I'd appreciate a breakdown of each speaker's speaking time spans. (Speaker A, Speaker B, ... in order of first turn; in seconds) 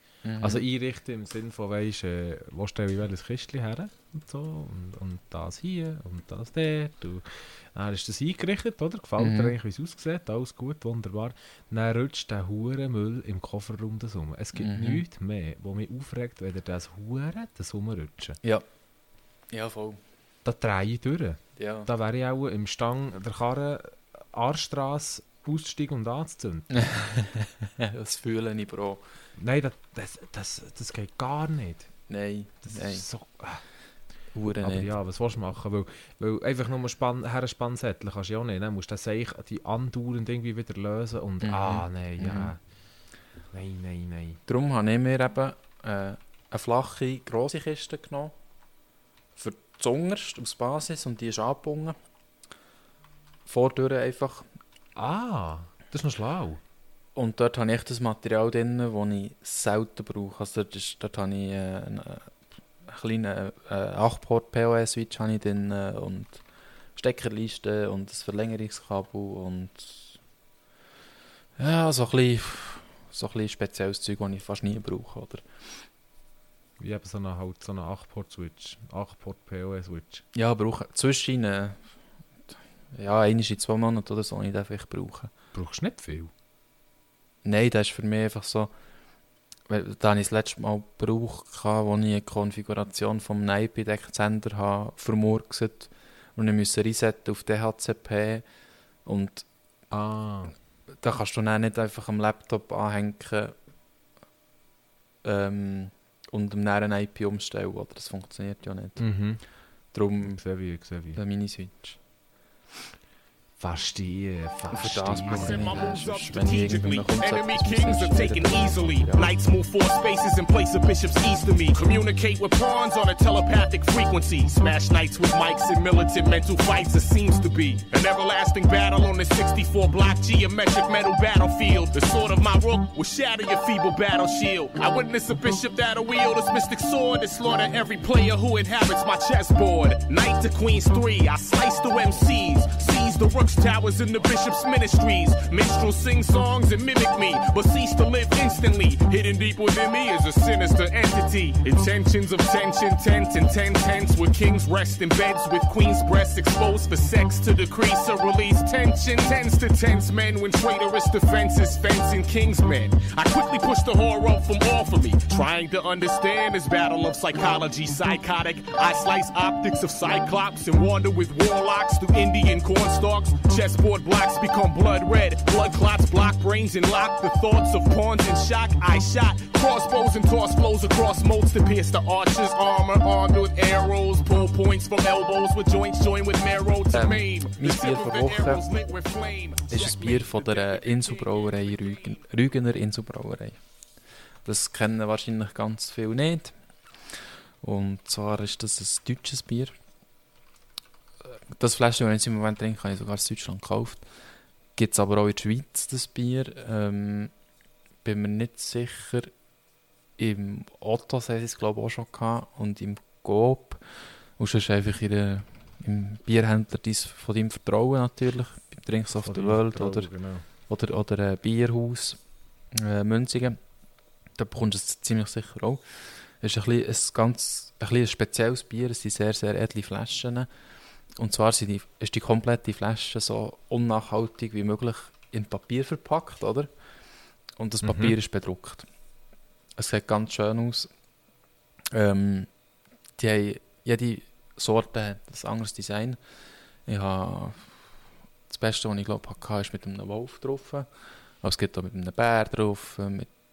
Speaker A: 0.2-0.7, 9.2-9.5, 14.6-15.0, 19.5-20.0, 21.6-21.9, 26.8-29.0, 32.1-33.1, 34.3-34.9, 41.4-42.5, 44.5-48.3, 49.4-52.0, 53.5-54.5, 57.2-66.4, 67.0-70.2, 71.6-75.4, 80.3-81.8, 82.9-85.3, 87.4-88.7, 89.7-98.5, 99.0-99.5, 101.0-103.5, 105.2-109.1, 109.9-110.5, 111.1-112.0, 114.7-119.3, 186.9-188.7, 189.7-193.6, 194.4-196.6, 197.1-199.8, 201.5-204.1, 204.8-207.3, 208.0-209.3, 210.2-223.6, 224.4-230.5, 231.2-236.7, 237.6-238.9, 239.8-240.9, 241.9-242.6, 243.2-246.2, 246.8-247.9, 248.5-250.9, 251.4-253.3
Speaker B: 0.4-18.4, 20.4-26.7, 29.4-31.9, 32.7-33.6, 34.6-42.6, 43.5-44.4, 55.0-56.6, 76.8-80.2, 85.5-86.3, 99.9-100.5, 109.0-109.5, 110.2-111.2, 113.6-116.0, 219.2-220.5, 237.8-238.2
Speaker C: 115.2-192.2